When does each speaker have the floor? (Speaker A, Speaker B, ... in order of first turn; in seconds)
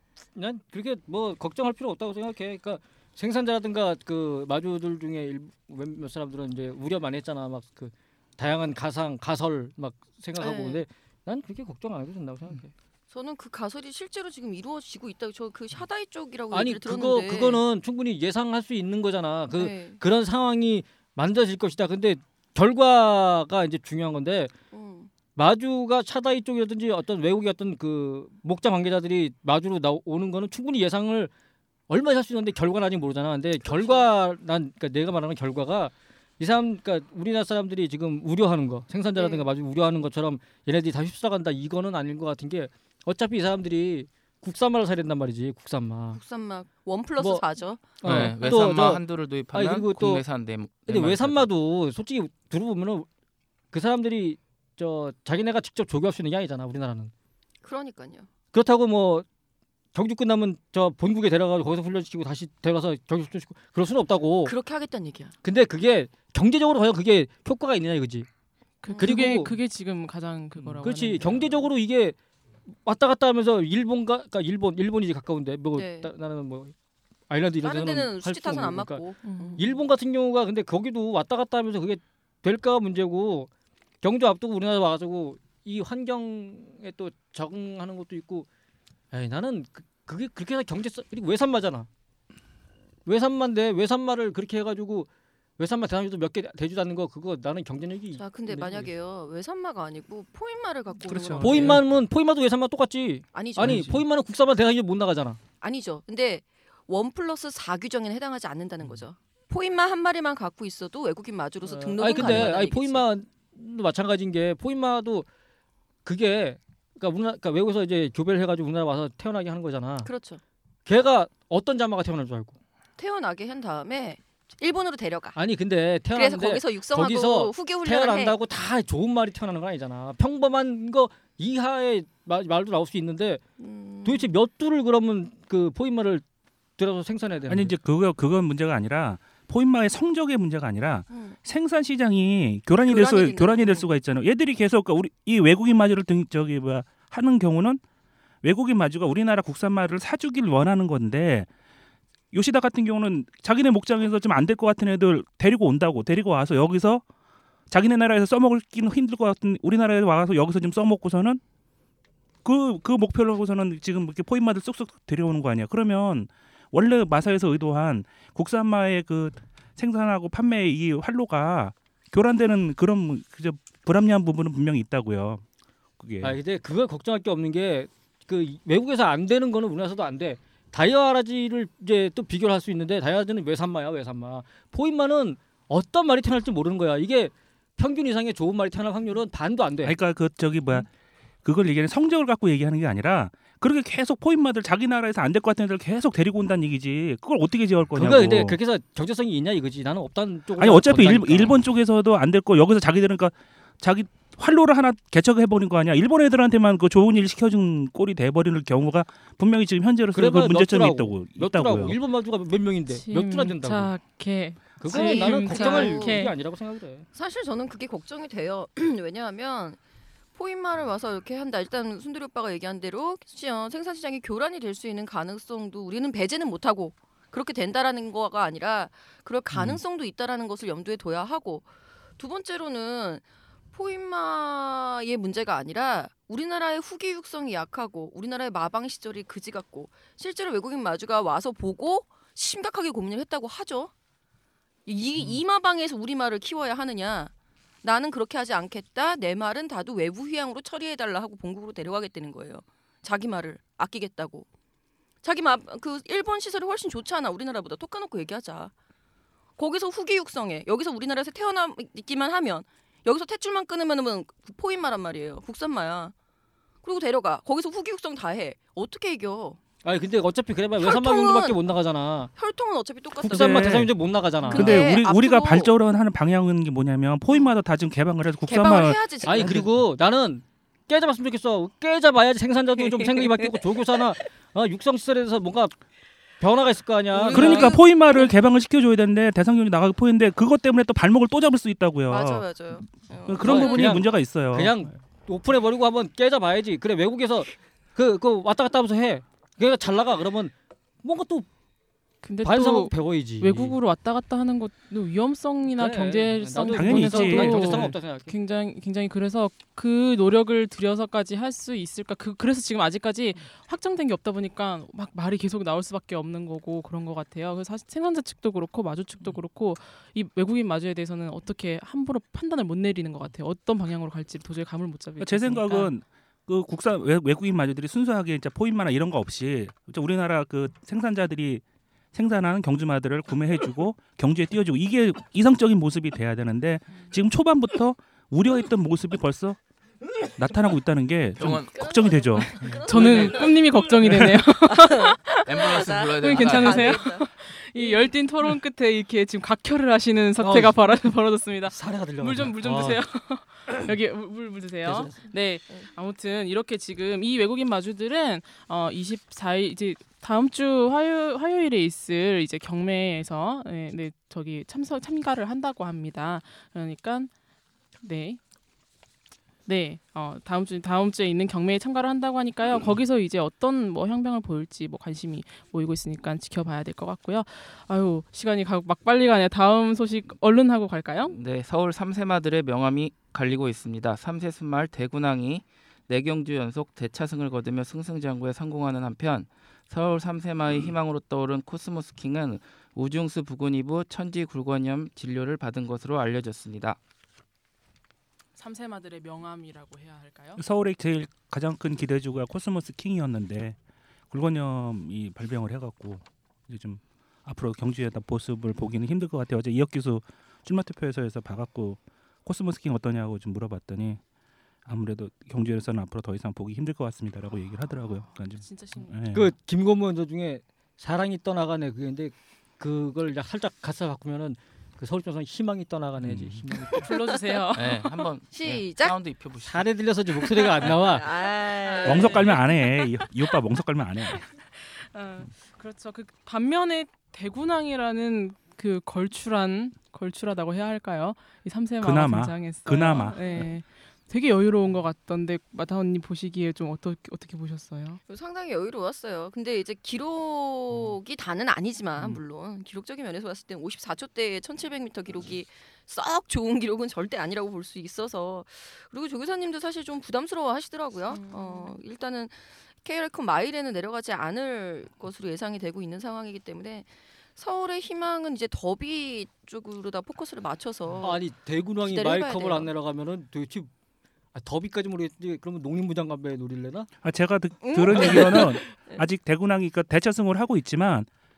Speaker A: 0.3-12.7, 16.5-24.5, 25.4-31.3, 31.9-46.2, 47.2-47.4, 48.0-50.2, 50.9-53.1, 53.7-57.1, 58.5-59.2, 59.9-64.5, 65.4-68.3, 69.0-69.5, 70.8-72.2, 72.8-76.7, 77.3-79.0, 79.6-83.5, 84.0-88.5, 89.1-91.9, 93.0-98.9, 101.4-105.4, 111.6-115.3, 116.0-120.1, 120.8-122.6, 125.3-133.4, 134.0-136.2, 136.8-137.7, 176.2-190.0, 197.9-201.6, 210.1-213.9, 214.8-217.1, 269.8-272.3, 273.2-274.9, 279.2-285.8, 286.4-287.8, 293.4-301.5, 302.4-303.8, 305.7-308.3, 342.6-343.3, 350.4-350.8, 351.7-353.0, 354.8-355.1, 419.3-427.1, 429.6-431.4, 471.2-473.9, 474.5-477.1
Speaker B: 10.4-10.8, 13.1-17.6, 19.5-20.0, 24.7-25.1, 33.6-34.0, 39.2-39.5, 46.1-47.9, 57.6-58.3, 64.4-65.3, 68.9-69.3, 75.7-76.1, 77.6-79.8, 98.1-101.8, 103.3-103.9, 105.6-113.0, 120.0-120.4, 123.0-125.4, 126.1-128.3, 133.6-134.3, 141.1-141.4, 142.8-143.9, 214.9-216.2, 217.1-219.8, 220.3-231.7, 232.2-243.9, 244.8-247.3, 247.8-254.5, 255.2-258.7, 259.6-266.1, 266.8-269.6, 270.8-271.6, 272.4-273.9, 274.5-275.7, 278.5-279.7, 282.9-283.5, 287.1-288.3, 292.1-294.1, 341.7-343.6, 344.6-348.1, 426.9-427.6, 428.5-429.1, 430.5-432.6, 448.3-471.5, 472.0-472.9, 477.8-479.2
Speaker C: 48.0-51.5, 341.4-341.8, 342.9-343.4, 345.4-347.0, 381.3-397.0, 427.7-429.9
Speaker D: 68.8-71.6, 79.2-79.6, 212.9-216.3, 302.2-325.9, 342.8-367.3, 368.0-368.4, 369.6-381.4, 398.6-400.6, 418.5-419.1, 427.0-428.1, 431.8-433.3, 434.3-448.2, 461.3-461.9
Speaker E: 101.0-101.8, 103.6-103.9, 137.5-147.8, 148.4-151.5, 152.3-157.0, 157.7-161.4, 162.4-175.4, 176.0-176.4, 189.8-190.9, 191.4-198.6, 200.6-211.9, 229.5-229.8, 273.2-273.9, 274.5-279.6, 287.3-292.6, 293.2-294.8, 306.7-307.9, 325.2-339.6, 340.4-342.6, 400.6-403.8, 404.3-414.2, 414.9-419.5, 426.2-426.6, 432.0-434.4, 442.0-443.6, 477.2-481.3